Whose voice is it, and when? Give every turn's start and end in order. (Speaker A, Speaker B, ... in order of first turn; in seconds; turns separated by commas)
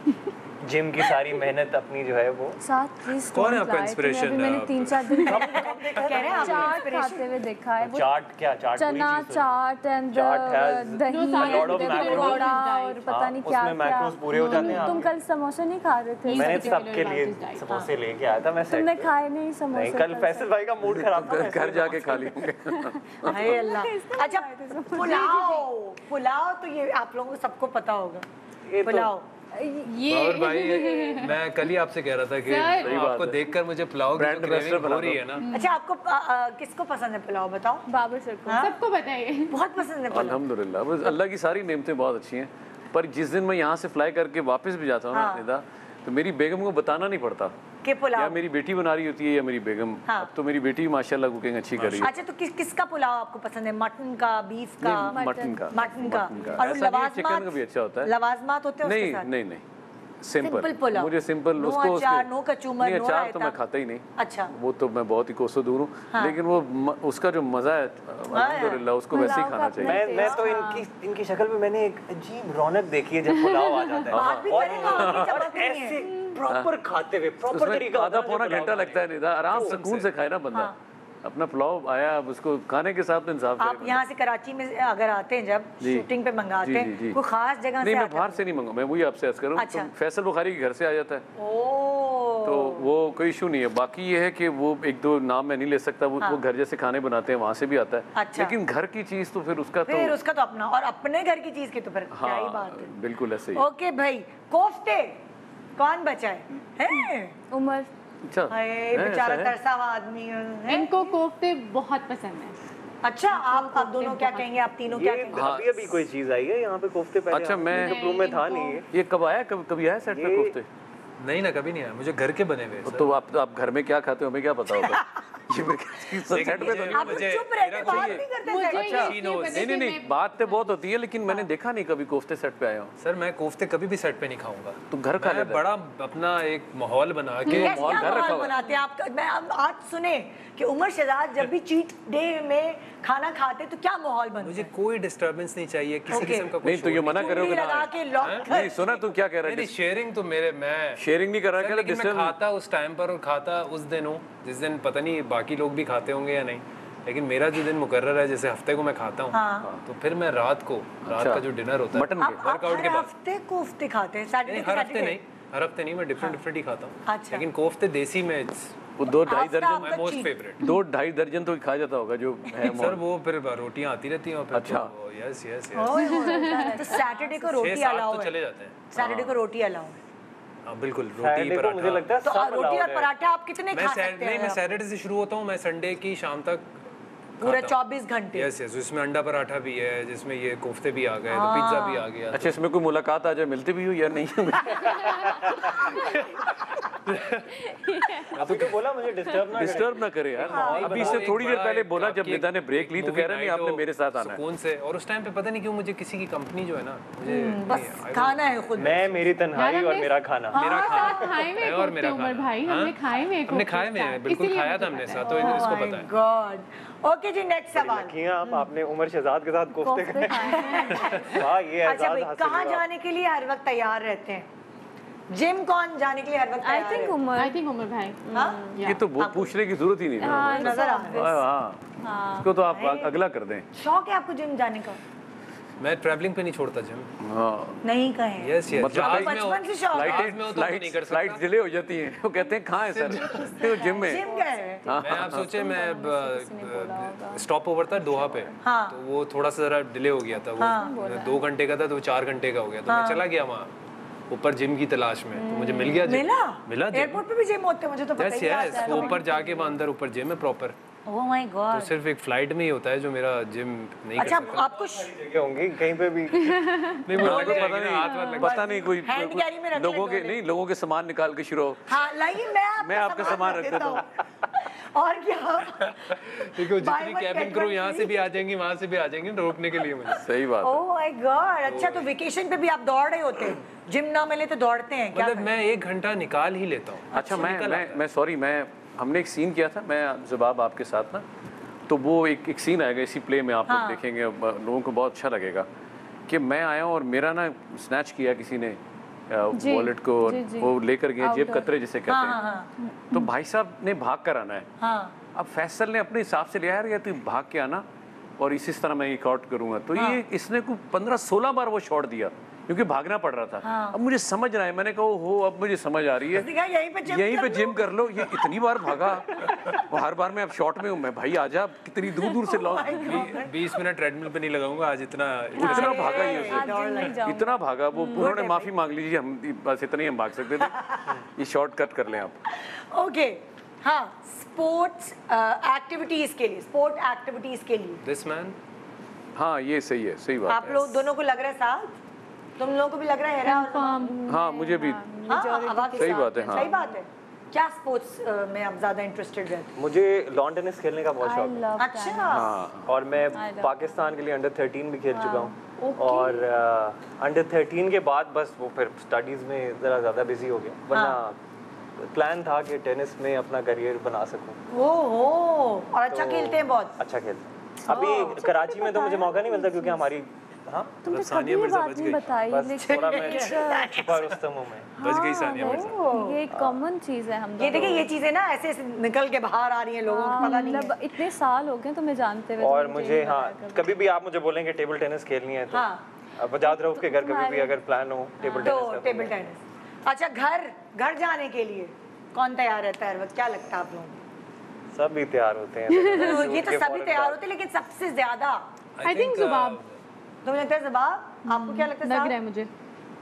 Speaker A: 0.6-2.6, Speaker B: 2.6-8.1, Speaker C: 3.3-5.3, Speaker A: 5.3-6.8, Speaker D: 5.3-7.3, Speaker A: 7.8-9.5, Speaker B: 8.7-17.0, Speaker A: 10.1-12.6, Speaker E: 11.1-13.1, Speaker A: 13.1-15.1, Speaker E: 14.3-15.0, Speaker E: 16.2-17.6, Speaker A: 16.3-19.1, Speaker B: 18.7-20.6, Speaker A: 19.7-22.4, Speaker F: 21.2-23.7, Speaker B: 23.1-25.7, Speaker D: 23.2-28.2, Speaker A: 28.7-29.1, Speaker D: 28.8-29.2, Speaker B: 29.5-29.9, Speaker E: 29.9-31.4, Speaker C: 30.1-35.5, Speaker E: 32.4-32.9, Speaker F: 32.8-33.5, Speaker F: 34.1-35.4, Speaker E: 35.4-35.8, Speaker D: 35.5-37.8, Speaker B: 37.9-38.7, Speaker D: 38.5-38.8, Speaker E: 38.6-39.6, Speaker D: 39.5-40.4, Speaker F: 40.1-47.5, Speaker D: 45.1-45.4, Speaker D: 47.8-48.4, Speaker F: 48.1-52.1, Speaker C: 51.8-52.1, Speaker D: 52.0-55.2, Speaker F: 54.8-58.1, Speaker B: 55.0-56.6, Speaker D: 55.7-57.5, Speaker D: 58.0-59.3, Speaker F: 58.8-59.6, Speaker F: 60.2-70.1, Speaker D: 60.4-63.5, Speaker D: 64.2-64.5, Speaker D: 68.3-68.8, Speaker B: 69.1-70.8, Speaker A: 69.8-79.0, Speaker D: 70.1-70.4, Speaker B: 73.4-74.0, Speaker F: 74.1-75.4, Speaker D: 74.1-76.4, Speaker F: 77.4-84.0, Speaker C: 79.5-80.1, Speaker D: 83.6-88.4, Speaker F: 85.8-86.0, Speaker F: 86.6-87.2, Speaker F: 87.8-91.2, Speaker D: 89.6-89.9, Speaker D: 91.3-92.9, Speaker F: 92.4-100.2, Speaker D: 98.2-98.5, Speaker D: 99.9-102.9, Speaker F: 102.1-103.7, Speaker D: 103.5-105.2, Speaker D: 105.8-107.3, Speaker B: 107.5-107.9, Speaker F: 108.3-109.5, Speaker D: 108.5-111.1, Speaker E: 110.7-112.5, Speaker D: 113.0-115.4, Speaker E: 113.3-114.5, Speaker A: 114.9-118.8, Speaker F: 115.3-116.0, Speaker F: 117.3-118.2, Speaker E: 117.7-118.8, Speaker F: 118.9-120.7, Speaker A: 120.1-120.5, Speaker C: 121.2-123.1, Speaker F: 122.8-132.9, Speaker C: 126.3-128.2, Speaker D: 126.4-129.2, Speaker E: 128.4-130.2, Speaker C: 128.9-129.7, Speaker C: 133.0-138.0, Speaker F: 134.9-135.7, Speaker D: 137.5-144.7, Speaker F: 137.5-138.5, Speaker C: 144.4-148.4, Speaker D: 146.1-146.6, Speaker F: 146.6-149.8, Speaker D: 147.1-149.0, Speaker C: 149.4-151.0, Speaker F: 151.0-152.4, Speaker C: 151.5-163.1, Speaker D: 159.3-159.7, Speaker F: 161.1-162.4, Speaker D: 162.2-165.2, Speaker C: 164.4-168.7, Speaker D: 167.1-167.5, Speaker F: 169.0-173.0, Speaker D: 169.2-170.3, Speaker C: 169.8-170.7, Speaker C: 172.6-176.0, Speaker F: 174.5-174.9, Speaker D: 175.7-178.4, Speaker B: 176.0-177.6, Speaker E: 176.2-176.8, Speaker C: 177.5-178.8, Speaker D: 178.9-180.0, Speaker F: 178.9-179.4, Speaker C: 180.6-182.2, Speaker A: 181.2-183.1, Speaker D: 182.2-184.6, Speaker C: 183.7-186.8, Speaker D: 187.4-188.5, Speaker C: 187.4-187.8, Speaker C: 188.3-192.6, Speaker D: 191.3-192.1, Speaker F: 192.3-195.8, Speaker C: 197.1-197.5, Speaker B: 197.6-198.4, Speaker C: 198.3-198.8, Speaker A: 198.4-201.4, Speaker F: 199.5-204.4, Speaker C: 200.4-209.4, Speaker D: 200.5-201.0, Speaker D: 207.2-209.1, Speaker A: 208.8-210.7, Speaker E: 209.5-215.8, Speaker D: 210.5-211.4, Speaker C: 210.5-216.1, Speaker D: 215.3-218.7, Speaker A: 217.7-222.8, Speaker B: 219.8-221.1, Speaker D: 220.4-224.5, Speaker D: 225.3-227.2, Speaker B: 226.6-227.6, Speaker E: 227.3-228.2, Speaker B: 228.2-228.8, Speaker D: 228.3-229.5, Speaker E: 228.7-229.0, Speaker F: 228.8-231.8, Speaker B: 230.2-231.4, Speaker D: 230.2-231.4, Speaker B: 232.0-232.5, Speaker F: 232.4-233.7, Speaker D: 232.7-233.1, Speaker D: 233.7-235.0, Speaker C: 235.8-237.1, Speaker F: 237.2-237.8, Speaker D: 237.8-240.3, Speaker C: 238.4-241.4, Speaker F: 238.8-244.2, Speaker C: 242.9-243.3, Speaker B: 243.2-248.5, Speaker D: 243.4-244.9, Speaker F: 244.9-245.5, Speaker C: 245.0-253.7, Speaker D: 248.6-249.0, Speaker B: 250.3-251.4, Speaker D: 250.6-250.9, Speaker D: 252.9-253.3, Speaker C: 254.3-257.2, Speaker B: 255.3-256.1, Speaker D: 255.8-259.2, Speaker C: 258.2-260.7, Speaker B: 258.5-259.8, Speaker D: 261.1-261.9, Speaker C: 261.7-264.6, Speaker D: 264.1-265.2, Speaker A: 265.1-266.5, Speaker C: 267.0-268.8, Speaker F: 267.1-272.1, Speaker D: 269.0-270.4, Speaker D: 271.9-274.0, Speaker F: 272.8-274.0, Speaker D: 274.9-278.3, Speaker C: 276.3-280.3, Speaker F: 280.1-280.8, Speaker D: 280.6-285.5, Speaker C: 281.6-282.1, Speaker C: 285.1-288.0, Speaker F: 287.1-291.2, Speaker F: 291.9-295.7, Speaker D: 293.7-294.0, Speaker F: 296.3-298.8, Speaker F: 299.3-302.4, Speaker B: 299.5-301.7, Speaker D: 302.1-302.7, Speaker F: 303.1-304.7, Speaker D: 304.8-305.1, Speaker F: 305.3-307.8, Speaker F: 308.4-316.5, Speaker D: 313.6-314.0, Speaker D: 316.3-319.6, Speaker F: 317.1-323.4, Speaker D: 322.4-323.8, Speaker C: 323.1-326.4, Speaker B: 325.6-328.3, Speaker F: 325.6-332.4, Speaker D: 325.6-327.4, Speaker D: 328.0-328.7, Speaker D: 330.6-331.1, Speaker D: 332.9-338.0, Speaker C: 338.0-338.6, Speaker F: 339.4-340.9, Speaker D: 340.5-341.9, Speaker D: 342.6-344.1, Speaker E: 343.4-344.1, Speaker B: 344.0-346.9, Speaker F: 344.3-345.0, Speaker D: 345.3-349.7, Speaker F: 346.0-346.7, Speaker A: 349.8-351.7, Speaker B: 351.2-352.5, Speaker D: 351.8-352.6, Speaker F: 352.3-352.9, Speaker A: 352.8-361.4, Speaker B: 353.3-354.0, Speaker B: 355.1-355.5, Speaker D: 355.8-356.4, Speaker D: 360.9-361.2, Speaker A: 362.0-364.6, Speaker D: 364.7-366.9, Speaker A: 366.1-371.0, Speaker B: 367.9-370.1, Speaker D: 367.9-368.4, Speaker B: 371.0-374.0, Speaker C: 371.1-372.4, Speaker A: 372.5-374.9, Speaker D: 372.8-374.3, Speaker C: 375.0-376.0, Speaker B: 375.0-378.1, Speaker D: 375.6-376.4, Speaker D: 377.6-380.9, Speaker A: 377.6-378.1, Speaker B: 380.1-384.0, Speaker A: 382.6-389.4, Speaker D: 385.7-386.0, Speaker B: 386.6-387.7, Speaker B: 388.4-388.8, Speaker D: 388.6-394.2, Speaker A: 394.9-397.4, Speaker B: 395.9-396.5, Speaker D: 396.1-398.6, Speaker C: 398.9-400.0, Speaker E: 399.0-399.8, Speaker D: 400.4-402.4, Speaker E: 401.4-402.7